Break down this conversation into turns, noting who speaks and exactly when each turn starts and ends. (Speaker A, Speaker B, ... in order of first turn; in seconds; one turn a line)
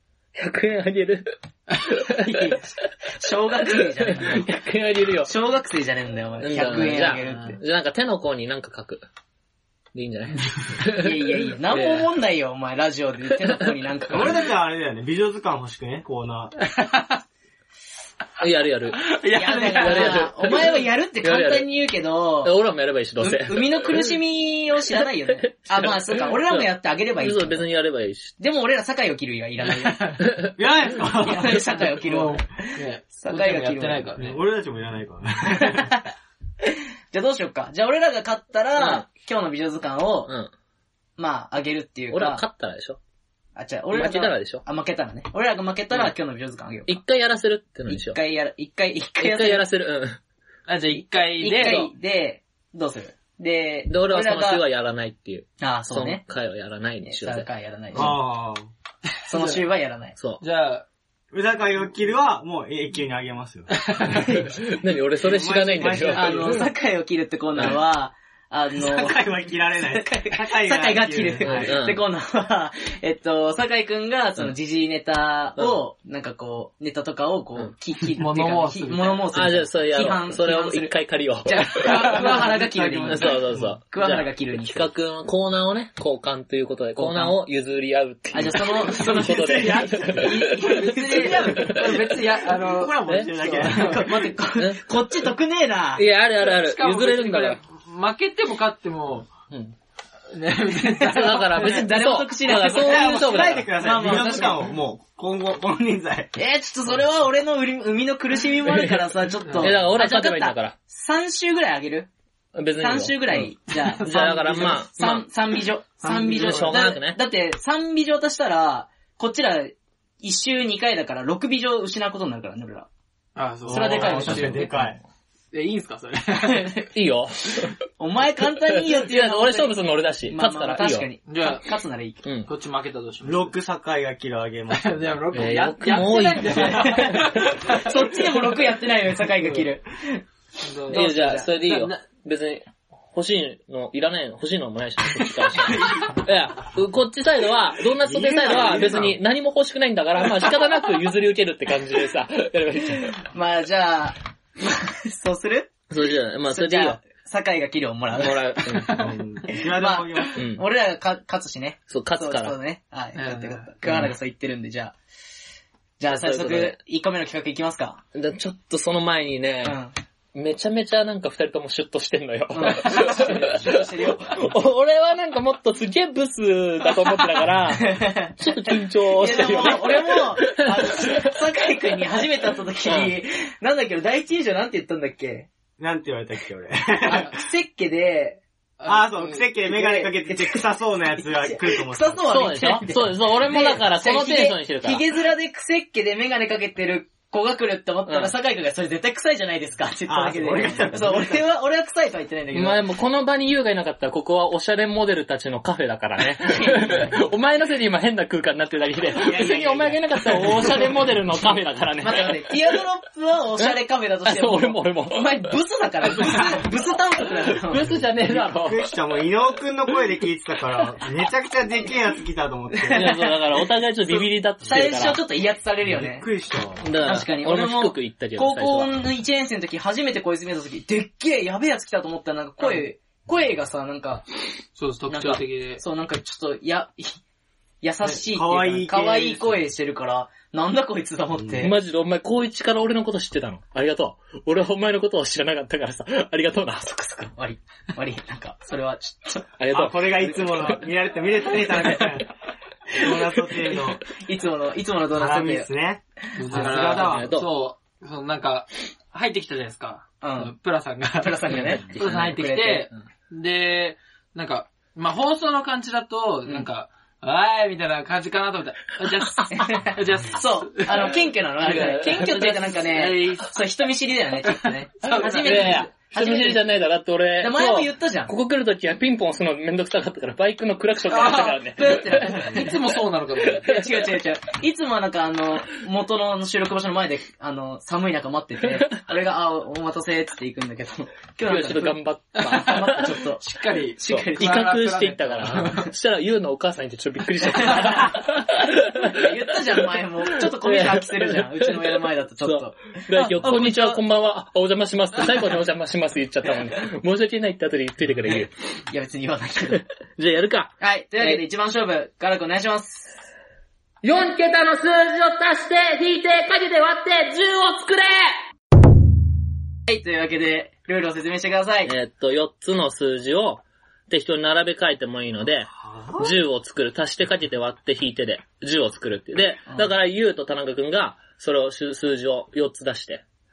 Speaker A: 0.3-2.6
Speaker B: 2.1-4.5
Speaker A: 4.1-5.3
Speaker B: 5.2-7.6
Speaker A: 6.4-9.1
Speaker A: 9.9-12.1
Speaker B: 10.9-14.4
Speaker C: 14.1-16.6
Speaker D: 16.6-17.2
Speaker A: 18.4-21.7
Speaker D: 19.0-20.3
Speaker B: 19.3-22.6
Speaker A: 22.4-24.2
Speaker B: 23.2-27.7
Speaker A: 25.5-28.4
Speaker B: 28.4-30.4
Speaker A: 30.3-30.5
Speaker C: 30.6-31.6
Speaker B: 31.2-34.1
Speaker D: 31.9-34.4
Speaker C: 34.2-35.9
Speaker B: 35.5-36.1
Speaker B: 37.1-40.3
Speaker A: 38.8-39.0
Speaker B: 41.2-42.4
Speaker A: 42.1-43.0
Speaker B: 43.6-47.0
Speaker A: 43.9-44.6
Speaker A: 46.9-48.2
Speaker B: 47.9-49.7
Speaker A: 49.2-50.2
Speaker D: 50.7-51.9
Speaker B: 51.2-54.7
Speaker A: 51.5-51.9
Speaker A: 53.9-57.5
Speaker B: 55.6-56.2
Speaker B: 57.0-58.2
Speaker C: 57.9-58.7
Speaker B: 59.3-60.1
Speaker D: 59.3-59.6
Speaker D: 60.4-60.9
Speaker C: 61.3-64.4
Speaker D: 63.7-64.3
Speaker A: 64.1-66.7
Speaker C: 65.2-66.7
Speaker B: 66.1-69.2
Speaker C: 68.8-71.7
Speaker B: 69.8-84.9
Speaker A: 71.4-72.0
Speaker D: 78.2-79.3
Speaker A: 79.3-82.2
Speaker D: 81.7-83.2
Speaker C: 82.6-83.8
Speaker A: 83.1-92.1
Speaker B: 87.0-87.4
Speaker B: 88.3-91.7
Speaker C: 88.6-94.3
Speaker D: 91.6-93.0
Speaker B: 93.3-96.0
Speaker A: 94.6-94.9
Speaker A: 96.0-97.6
Speaker D: 96.4-99.3
Speaker A: 99.5-99.8
Speaker D: 100.3-101.8
Speaker B: 100.8-104.6
Speaker A: 101.0-103.8
Speaker C: 102.7-106.3
Speaker B: 106.3-112.1
Speaker A: 108.7-110.8
Speaker D: 109.5-109.8
Speaker A: 112.5-115.3
Speaker B: 112.8-122.9
Speaker A: 116.0-117.2
Speaker C: 116.1-116.5
Speaker D: 123.4-124.6
Speaker C: 123.6-125.0
Speaker B: 123.7-124.8
Speaker A: 124.5-124.8
Speaker D: 125.5-126.8
Speaker B: 126.4-126.9
Speaker A: 126.9-127.8
Speaker B: 128.0-132.2
Speaker A: 128.8-131.1
Speaker D: 131.3-131.7
Speaker A: 132.2-132.5
Speaker D: 132.5-133.6
Speaker C: 133.2-135.3
Speaker D: 134.7-138.0
Speaker A: 135.3-137.7
Speaker B: 136.5-140.2
Speaker D: 140.6-142.0
Speaker B: 140.9-141.6
Speaker A: 140.9-153.2
Speaker C: 148.0-149.2
Speaker B: 148.5-148.9
Speaker B: 153.3-155.8
Speaker A: 155.9-157.0
Speaker B: 156.5-164.9
Speaker A: 158.1-159.1
Speaker C: 158.9-160.3
Speaker A: 160.3-160.6
Speaker A: 161.9-162.6
Speaker D: 163.2-163.7
Speaker A: 163.9-164.1
Speaker B: 166.0-168.0
Speaker A: 166.1-166.8
Speaker A: 168.1-169.8
Speaker B: 169.6-169.9
Speaker A: 170.3-181.3
Speaker B: 172.5-174.5
Speaker B: 177.7-185.5
Speaker A: 182.8-183.1
Speaker C: 185.8-187.3
Speaker B: 187.0-188.4
Speaker D: 188.8-189.4
Speaker C: 188.8-192.3
Speaker B: 189.6-190.7
Speaker B: 191.2-202.8
Speaker A: 192.3-195.0
Speaker A: 198.1-198.3
Speaker C: 200.1-201.5
Speaker A: 202.5-212.4
Speaker B: 206.5-207.2
Speaker C: 209.2-209.7
Speaker B: 209.3-210.0
Speaker B: 212.0-218.1
Speaker A: 214.3-215.4
Speaker A: 216.2-216.6
Speaker A: 217.7-218.8
Speaker C: 218.0-223.2
Speaker B: 222.8-223.5
Speaker A: 222.9-225.2
Speaker B: 224.0-226.3
Speaker C: 225.8-226.9
Speaker A: 226.8-228.9
Speaker B: 227.0-234.2
Speaker D: 234.8-235.8
Speaker B: 235.1-237.2
Speaker B: 237.8-241.7
Speaker C: 238.0-239.6
Speaker A: 241.6-247.3
Speaker B: 247.3-249.5
Speaker A: 249.6-250.5
Speaker C: 249.7-252.3
Speaker C: 252.9-254.0
Speaker B: 254.2-255.7
Speaker C: 255.1-257.3
Speaker D: 256.4-271.3
Speaker A: 256.6-257.5
Speaker B: 260.2-260.5
Speaker B: 261.2-262.9
Speaker A: 261.5-261.8
Speaker B: 269.5-276.6
Speaker A: 271.6-272.6
Speaker D: 271.8-273.5
Speaker D: 274.5-275.9
Speaker A: 275.2-282.5
Speaker B: 277.4-278.3
Speaker D: 281.1-281.6
Speaker B: 281.2-282.8
Speaker D: 282.3-283.7
Speaker A: 283.6-283.9
Speaker B: 283.6-294.8
Speaker A: 291.5-293.1
Speaker D: 292.4-295.9
Speaker A: 294.1-299.4
Speaker B: 295.4-295.9
Speaker B: 297.6-298.2
Speaker B: 299.0-304.0
Speaker A: 300.5-308.5
Speaker B: 308.9-309.8
Speaker A: 309.7-311.4
Speaker B: 310.8-313.1
Speaker A: 314.0-318.4
Speaker B: 319.9-321.9
Speaker A: 321.9-333.2
Speaker C: 325.8-326.4
Speaker B: 329.7-329.9